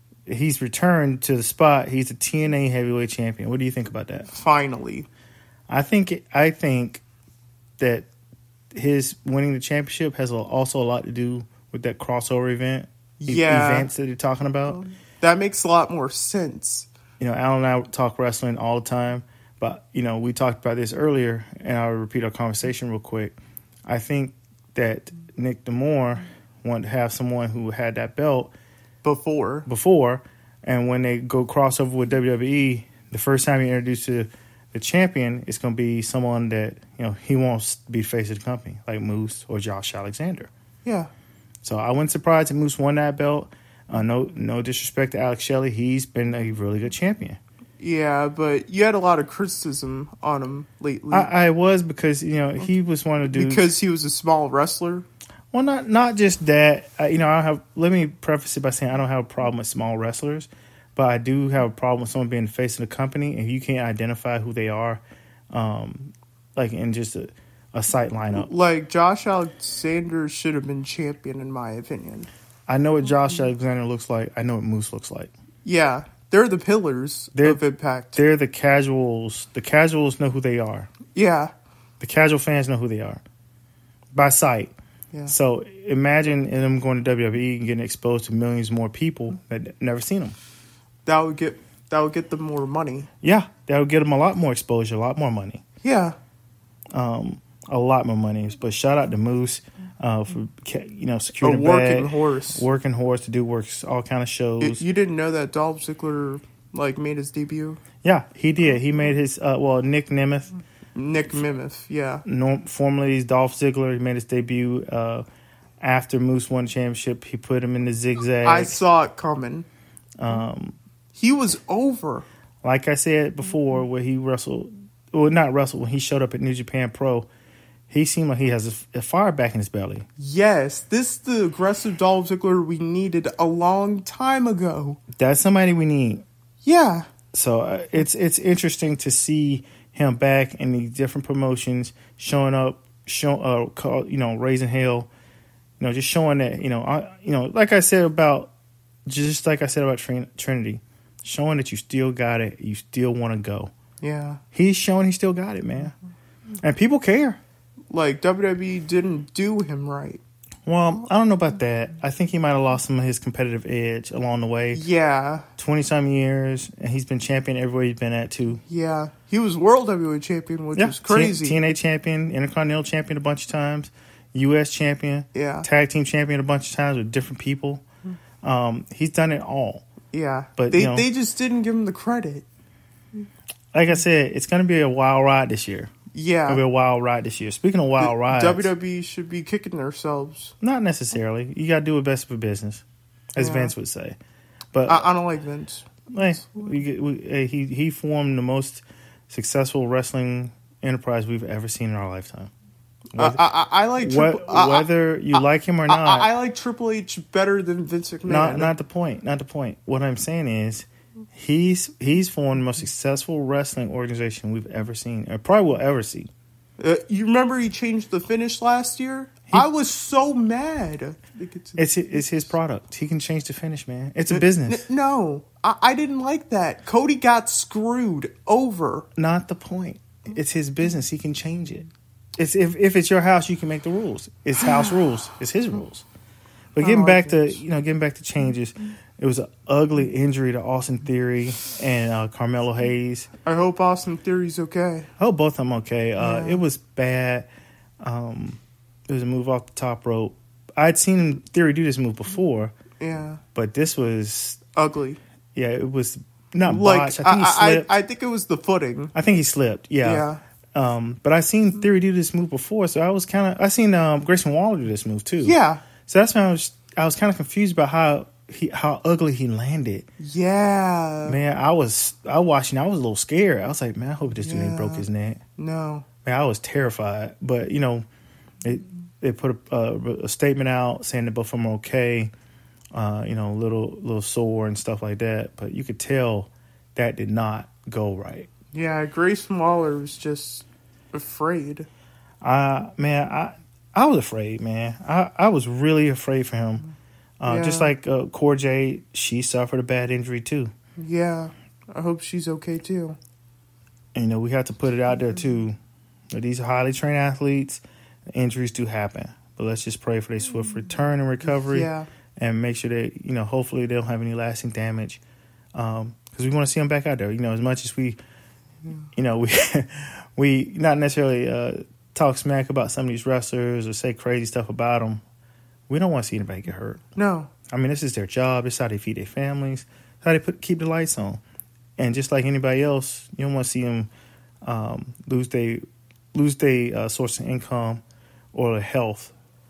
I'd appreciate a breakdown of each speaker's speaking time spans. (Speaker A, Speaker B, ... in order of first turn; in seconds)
Speaker A: 0.3-4.3, 5.7-7.0, 7.8-8.1, 8.7-14.8, 17.2-23.3, 23.9-28.5, 29.7-40.5, 41.6-47.4, 51.1-53.7, 55.5-68.5, 72.7-75.3, 77.3-77.6, 78.2-80.9, 82.0-83.2, 84.1-84.7, 85.3-90.4, 93.2-95.6, 96.9-104.8, 108.0-110.5, 112.3-115.2, 115.8-118.8, 120.2-120.8, 122.6-127.3, 127.9-130.1, 135.1-136.2, 137.3-145.1, 145.8-148.5, 149.1-153.7, 154.5-155.9, 156.6-157.4, 160.7-164.8, 165.6-168.6, 170.8-177.8, 178.4-179.9, 180.6-181.1, 183.7-185.9, 186.5-188.7, 190.6-194.2, 194.7-195.1, 196.1-202.5, 203.2-203.4, 204.0-206.3, 208.3-216.3, 221.8-224.9, 229.2-236.1, 236.8-243.3, 245.2-247.5, 248.0-252.7, 253.6-254.6, 255.6-257.9, 259.1-270.1, 271.2-275.4, 276.2-278.1, 278.6-282.3, 282.9-288.5, 292.4-296.9, 297.4-300.7, 304.1-305.8, 306.3-307.8, 308.3-315.2, 315.7-318.2, 319.1-325.2, 325.9-327.0, 327.7-331.4, 332.0-334.1, 334.6-335.8, 336.3-338.0, 338.5-339.3
Speaker B: 4.3-5.1, 13.2-13.9, 14.7-16.9, 29.0-29.7, 40.9-41.1, 47.8-51.3, 53.3-55.1, 68.3-72.3, 75.6-78.2, 81.1-81.5, 91.1-93.1, 95.8-96.2, 101.4-102.7, 104.6-107.8, 111.0-112.2, 118.4-119.7, 121.1-122.3, 130.2-135.0, 136.6-137.1, 154.0-154.4, 157.9-160.2, 164.7-165.5, 168.7-171.6, 175.3-175.7, 180.1-182.4, 186.1-186.6, 188.0-190.5, 193.4-193.7, 194.9-196.4, 203.2-208.7, 216.8-221.8, 224.3-229.1, 234.7-234.9, 236.8-237.6, 243.4-245.1, 246.2-246.6, 253.0-253.4, 254.7-255.2, 256.6-259.1, 260.0-260.4, 265.4-265.9, 270.2-271.4, 274.4-275.1, 275.6-276.1, 288.7-291.9, 297.5-297.9, 301.0-303.2, 311.6-312.1, 327.2-327.5